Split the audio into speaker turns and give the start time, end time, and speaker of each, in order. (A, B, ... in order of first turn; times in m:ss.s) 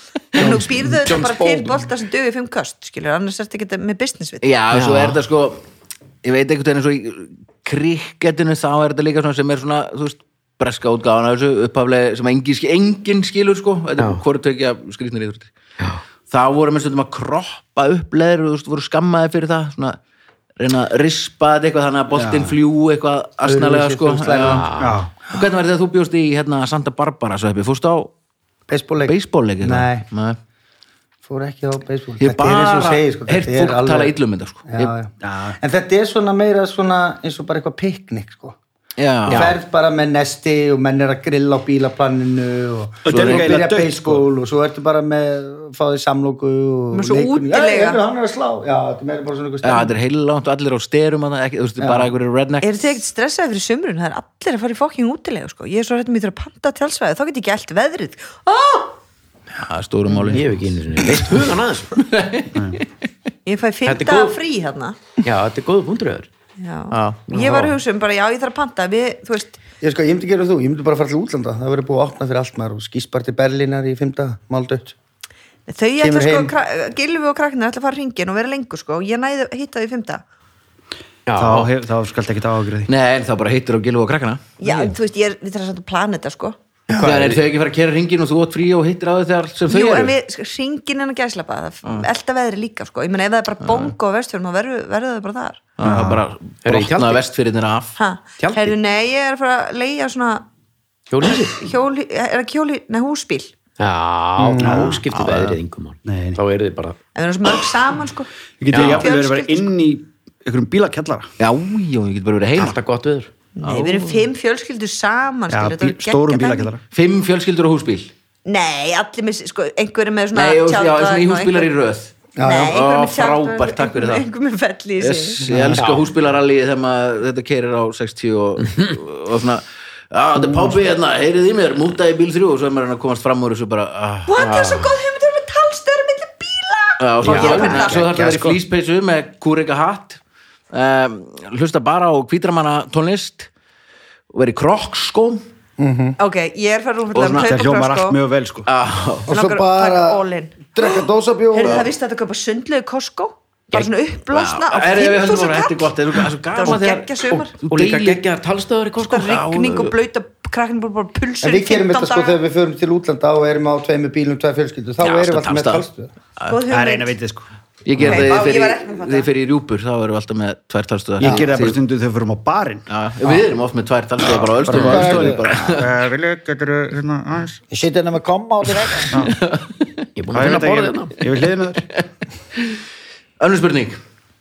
0:00.3-0:04.5 A
0:00.4-0:01.8 B
0:04.4-0:05.6 C
0:04.7-0:05.2 B
0:06.2-0:15.5 C
0:16.3-0:20.0 C
0:20.6-0:24.7 C
0:22.1-0:22.6 D
0:23.4-0:24.7 E
0:24.5-0:25.0 B
0:24.8-0:25.1 D
0:25.3-0:28.1 C
0:28.7-0:30.0 E
0:29.0-0:30.4 C
0:31.2-0:34.1 E
0:32.2-0:34.9 C
0:34.7-0:38.6 E
0:35.2-0:35.6 D
0:39.0-0:39.5 C
0:39.3-0:39.6 B
0:39.3-0:50.0 E
0:43.0-0:44.3 D
0:43.1-0:43.5 C
0:46.9-0:48.0 A
0:49.6-0:52.7 C
0:51.8-0:52.1 E
0:52.6-0:58.9 A
0:59.5-1:00.6 C
1:00.2-1:02.0 B
1:02.0-1:02.8 C
1:02.5-1:02.8 D
1:03.4-1:05.0 A
1:03.8-1:04.4 B
1:05.2-1:06.3 B
1:06.6-1:09.6 A
1:06.9-1:07.2 C
1:07.3-1:07.8 B
1:09.8-1:14.9 E
1:15.7-1:20.2 A
1:16.0-1:16.5 E
1:21.2-1:21.7 B
1:21.4-1:22.9 D
1:22.9-1:24.9 C
1:24.6-1:26.6 A
1:26.9-1:27.4 B
1:27.0-1:30.2 C
1:29.7-1:35.6 A
1:33.6-1:33.9 C
1:35.8-1:38.0 C
1:35.8-1:36.2 D
1:36.6-1:37.2 B
1:38.0-1:40.4 A
1:38.4-1:38.7 B
1:41.1-1:41.6 B
1:41.4-1:43.5 A
1:43.8-1:47.0 B
1:44.4-1:44.9 E
1:44.6-1:45.0 D
1:45.1-1:45.5 C
1:46.0-1:46.4 D
1:47.2-1:49.7 A
1:48.6-1:51.3 D
1:48.7-1:49.1 B
1:51.4-1:52.8 C
1:52.6-1:53.3 B
1:53.6-1:56.7 A
1:53.6-1:54.1 C
1:55.5-1:56.8 D
1:56.9-1:58.1 C
1:58.4-2:01.7 A
2:00.3-2:04.3 C
2:02.4-2:02.8 E
2:02.4-2:05.5 A
2:05.0-2:14.4 C
2:05.5-2:05.8 D
2:05.8-2:06.1 B
2:14.3-2:18.1 A
2:14.4-2:14.9 B
2:17.0-2:20.2 C
2:17.2-2:17.9 B
2:17.7-2:18.6 D
2:20.7-2:23.5 C
2:24.3-2:25.4 C
2:25.8-2:26.2 E
2:26.2-2:28.2 A
2:27.1-2:27.6 C
2:27.4-2:28.7 D
2:28.6-2:29.3 C
2:29.3-2:31.9 E
2:29.3-2:35.9 A
2:34.3-2:38.2 C
2:36.5-2:37.6 A
2:37.6-2:39.5 B
2:39.0-2:42.4 A
2:39.1-2:39.9 C
2:41.4-2:46.1 E
2:45.0-2:45.8 C
2:46.5-2:47.1 A
2:46.7-2:47.5 D
2:47.8-2:51.8 C
2:48.0-2:49.3 A
2:51.2-2:51.5 E
2:51.2-2:52.9 D
2:52.9-2:55.9 C
2:54.2-2:57.6 D
2:54.7-2:55.5 E
2:57.7-2:59.2 E
2:59.1-2:59.4 D
2:59.2-2:59.8 C
3:00.2-3:01.1 B
3:00.3-3:01.8 D
3:03.4-3:04.0 C